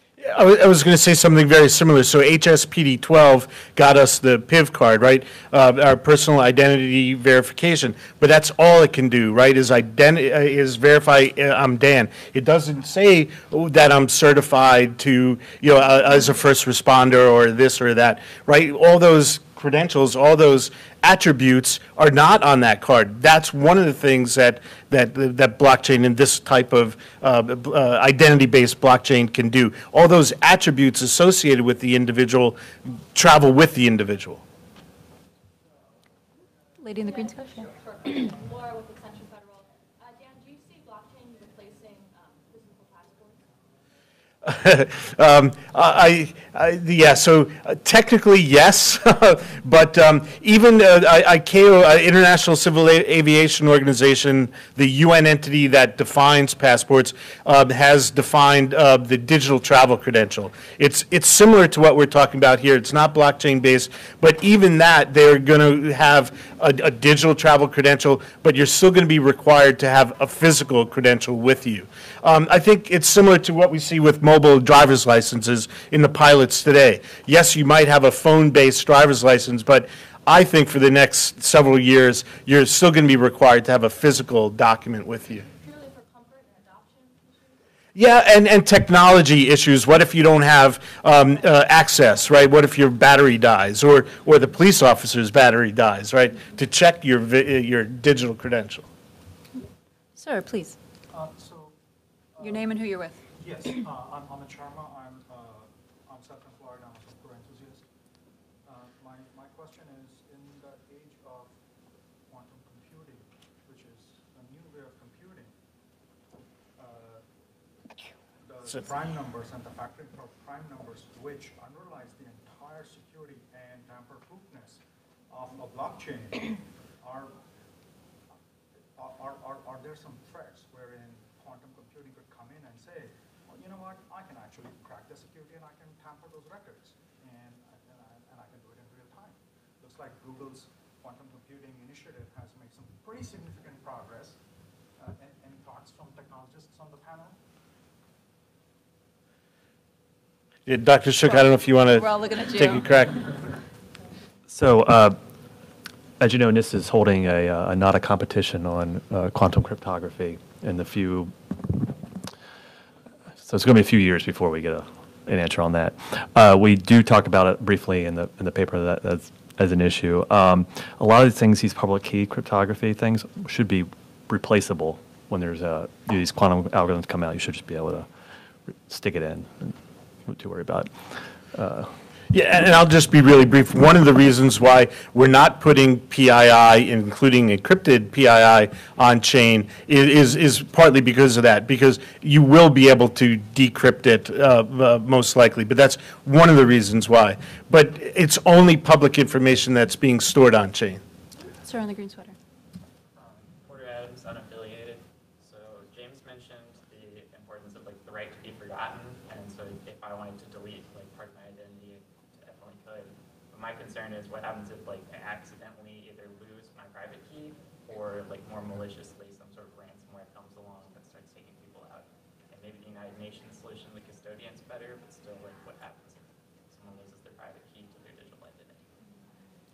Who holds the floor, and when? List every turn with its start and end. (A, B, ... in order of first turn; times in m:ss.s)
0:00.2-0:32.6 A
0:33.1-0:34.4 A
0:36.8-0:37.7 B
0:37.1-0:43.4 C
0:44.4-1:25.5 A
1:25.5-1:27.6 C
1:28.0-1:38.9 A
1:40.2-1:40.8 B
1:41.1-1:41.8 D
1:42.3-1:47.9 D
1:42.4-1:43.2 B
1:48.6-1:51.6 D
1:52.3-1:55.6 D
1:56.8-1:57.3 D
1:58.4-2:07.4 D
2:08.9-2:24.4 D
2:25.0-2:27.4 D
2:30.7-2:33.2 A
2:32.0-2:32.8 B
2:34.5-2:35.2 E
2:36.2-2:42.0 E
2:43.4-2:58.1 E
2:58.7-3:01.9 E
3:02.3-3:21.0 A
3:21.6-3:22.4 B
3:23.2-3:48.8 F